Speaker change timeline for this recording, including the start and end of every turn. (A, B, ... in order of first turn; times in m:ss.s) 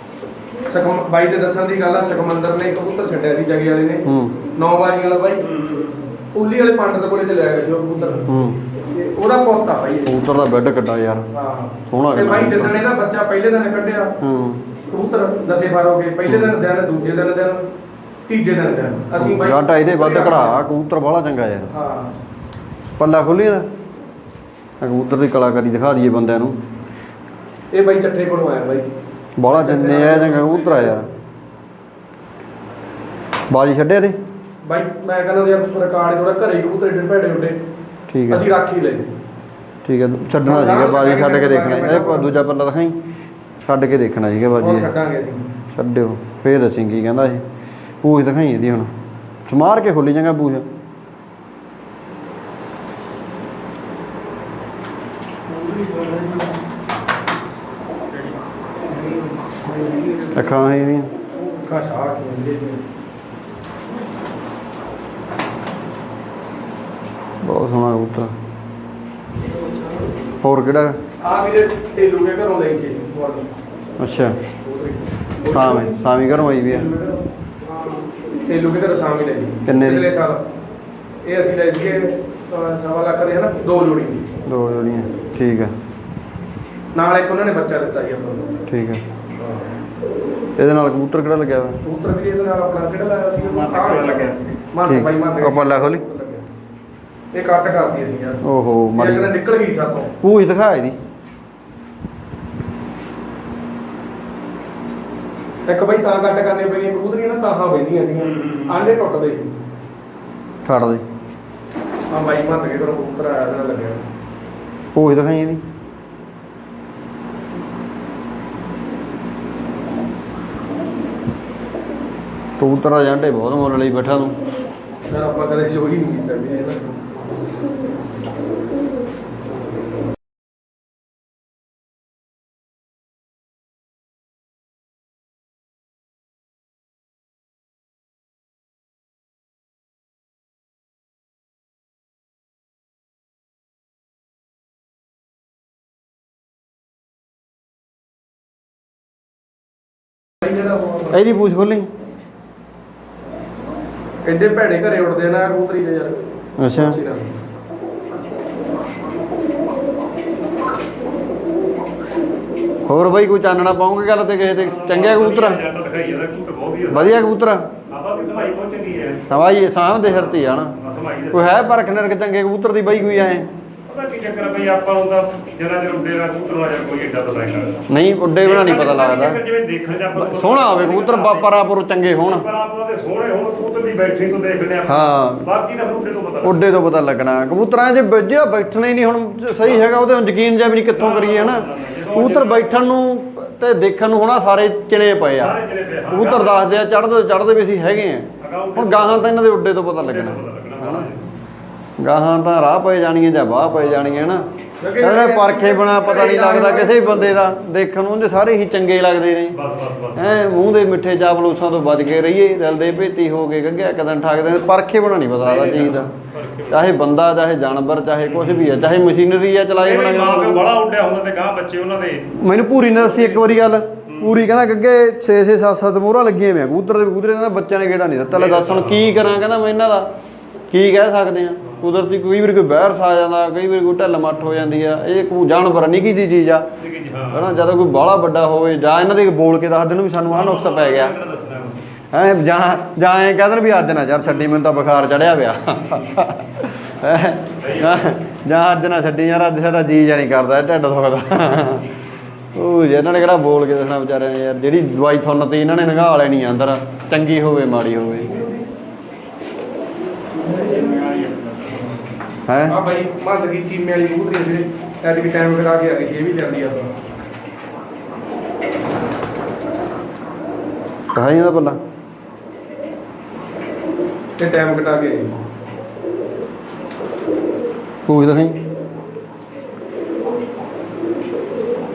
0:00.6-0:10.1 A
0:04.0-0:04.4 B
0:08.2-0:08.6 B
0:10.0-0:11.3 B
0:11.3-0:14.2 A
0:11.9-0:12.8 B
0:14.2-0:14.6 B
0:14.9-0:17.6 A
0:16.3-0:16.5 B
0:18.3-0:20.6 A
0:19.2-0:21.7 B
0:21.7-0:22.1 A
0:23.0-0:23.7 B
0:24.8-0:26.6 B
0:27.7-0:28.9 A
0:29.4-0:31.1 B
0:29.5-0:31.0 A
0:33.5-0:34.2 B
0:34.6-0:37.6 A
0:38.1-0:38.4 B
0:38.3-0:39.0 A
0:39.8-0:43.0 B
0:40.4-0:42.3 A
0:43.6-0:44.9 B
0:44.6-0:45.5 A
0:45.7-0:47.4 B
0:48.0-0:48.9 B
0:49.5-0:50.6 B
0:55.5-0:56.6 A
0:58.9-1:00.3 A
1:00.3-1:01.1 B
1:01.5-1:02.8 A
1:07.4-1:08.3 B
1:10.4-1:11.0 B
1:11.2-1:13.5 A
1:14.0-1:14.4 B
1:14.6-1:17.2 A
1:15.4-1:16.9 B
1:18.4-1:20.4 A
1:19.6-1:20.0 B
1:21.2-1:24.2 A
1:24.4-1:25.7 B
1:26.9-1:28.5 A
1:28.7-1:29.0 B
1:29.3-1:29.7 A
1:30.6-1:31.8 B
1:31.8-1:36.5 A
1:33.7-1:34.4 C
1:34.8-1:36.0 B
1:37.3-1:38.4 A
1:38.4-1:39.3 B
1:38.9-1:40.1 A
1:40.2-1:41.0 B
1:45.6-1:49.5 A
1:50.6-1:51.0 B
1:52.1-1:54.0 A
1:54.9-1:55.6 B
2:02.6-2:04.4 B
2:05.1-2:06.8 A
2:30.4-2:31.2 A
2:31.1-2:31.9 B
2:34.2-2:37.3 A
2:36.6-2:37.0 B
2:42.9-2:45.6 B
2:44.5-2:47.2 C
2:46.9-2:47.7 B
2:47.9-2:49.3 C
2:49.3-2:50.7 B
2:50.0-2:51.6 C
2:51.3-2:53.5 B
2:53.9-2:57.8 C
2:57.9-2:59.4 B
2:58.4-3:01.6 C
3:00.1-3:02.4 B
3:02.2-3:06.6 C
3:04.8-3:05.5 B
3:06.4-3:15.5 B
3:10.9-3:12.8 C
3:15.4-3:16.7 C
3:16.1-3:21.1 B
3:18.4-3:19.3 C
3:20.0-3:21.3 C
3:22.0-3:24.5 B
3:24.8-3:27.4 A
3:25.0-3:29.6 B
3:29.5-3:30.5 C
3:30.1-3:36.1 B
3:35.4-3:36.9 C
3:36.7-3:40.7 B
3:38.3-3:38.8 C
3:39.8-3:42.3 C
3:42.3-3:50.1 B
3:44.1-3:44.4 C
3:48.3-3:49.3 C
3:50.7-3:56.7 B
3:56.8-3:57.6 C
3:57.3-4:01.2 B
4:00.3-4:01.8 C
4:02.1-4:11.9 B
4:07.6-4:08.1 C
4:12.5-4:18.4 B
4:18.1-4:18.6 A
4:20.3-4:21.2 A
4:21.1-4:21.7 C
4:22.5-4:22.8 B
4:22.7-4:26.9 A
4:31.1-4:31.8 B
4:34.4-4:35.3 A
4:38.1-4:38.6 B